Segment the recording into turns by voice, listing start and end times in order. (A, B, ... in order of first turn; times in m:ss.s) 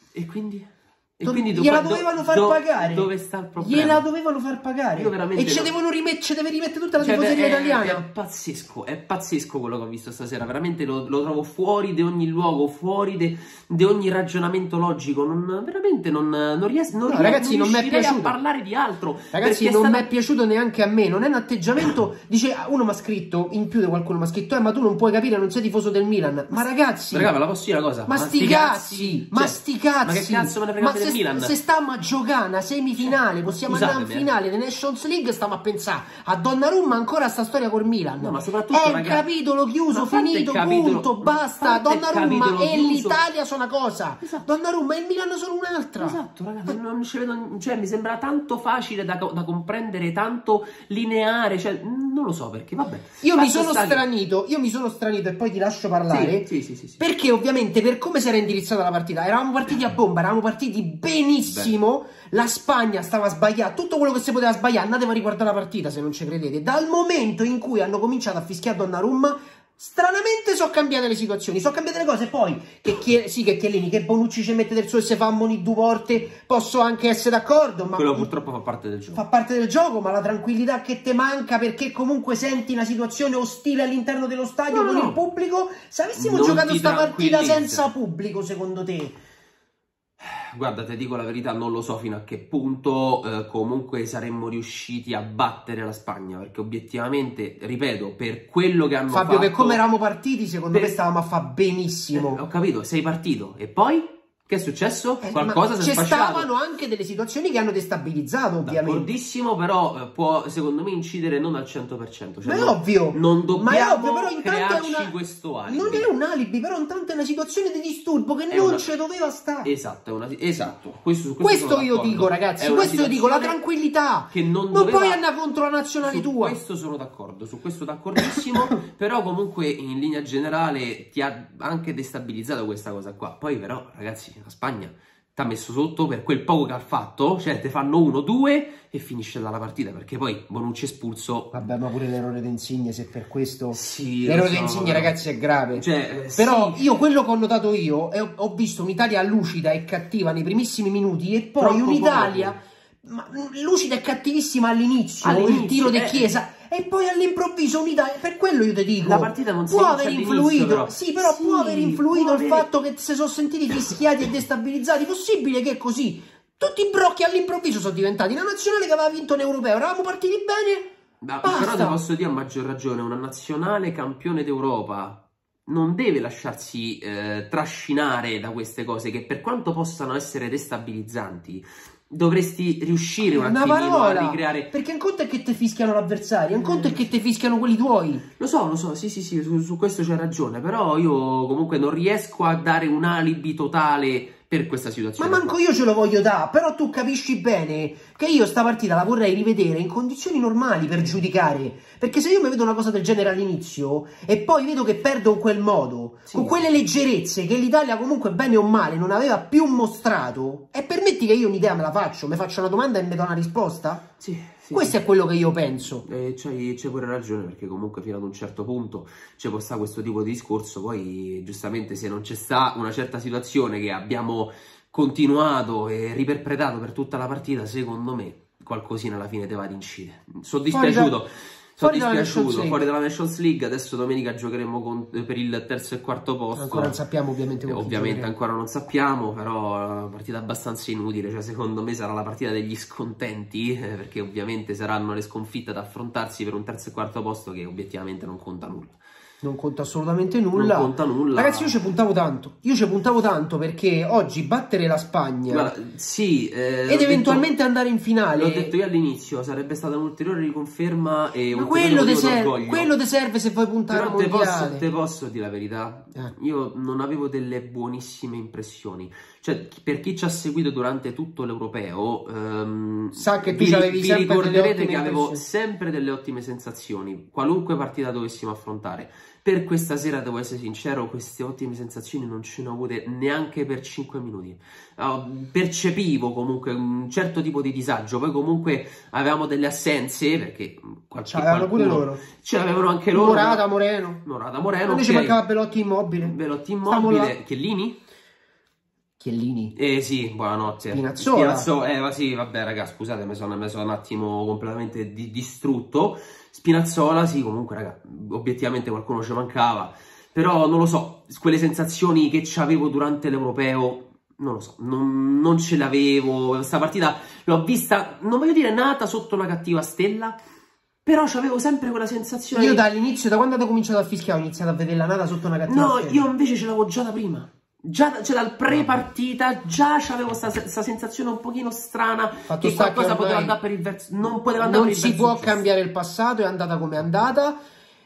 0:00.1-0:04.1 A
0:01.2-0:08.0 B
0:05.0-0:05.7 A
0:07.0-0:20.1 A
0:17.0-0:18.3 B
0:19.3-0:27.3 B
0:26.5-0:31.6 A
0:28.1-0:46.8 B
0:33.0-0:34.3 A
0:38.2-0:39.2 A
0:39.9-0:43.2 A
0:46.0-0:54.0 A
0:53.2-0:56.5 B
0:56.1-0:57.0 A
0:57.0-1:18.3 B
1:01.5-1:01.7 A
1:18.0-1:19.2 A
1:19.1-1:29.2 B
1:24.7-1:25.2 A
1:26.2-1:27.8 A
1:30.2-1:39.8 A
1:39.1-1:42.4 B
1:40.7-1:41.0 A
1:42.1-1:46.5 A
1:45.2-1:49.1 B
1:48.6-1:56.1 A
1:52.4-1:55.1 B
1:55.7-1:59.7 B
1:58.5-1:58.8 A
1:59.6-2:03.6 A
2:01.4-2:06.6 B
2:04.3-2:05.2 A
2:06.0-2:21.6 A
2:21.5-2:50.9 B
2:23.7-2:25.1 A
2:25.7-2:26.8 A
2:31.6-2:32.5 A
2:35.2-2:36.3 A
2:39.0-2:42.7 A
2:51.2-3:04.7 A
2:51.4-2:52.0 B
3:03.2-3:08.2 B
3:06.6-3:07.1 A
3:08.4-3:15.4 A
3:15.2-3:34.0 B
3:26.3-3:26.8 A
3:34.2-3:35.0 A
3:34.7-3:36.0 B
3:36.0-3:57.0 A
3:50.7-3:51.2 B
3:51.8-3:52.8 B
3:56.5-3:58.3 B
3:57.7-4:09.0 A
4:09.4-4:15.7 B
4:10.5-4:11.8 A
4:15.5-4:17.5 A
4:16.9-4:18.7 B
4:18.4-4:22.9 A
4:21.5-4:24.9 B
4:23.9-4:53.6 A
4:33.2-4:35.4 B
4:51.3-4:52.2 B
4:53.1-4:54.2 B
4:54.2-4:55.4 A
4:54.9-4:57.4 B
4:56.2-4:58.0 A
4:59.2-4:59.7 B
4:59.8-5:20.4 A
5:00.9-5:01.7 B
5:21.0-5:22.8 A
5:22.5-5:26.3 B
5:25.7-5:35.6 A
5:32.5-5:33.6 B
5:34.6-5:37.6 B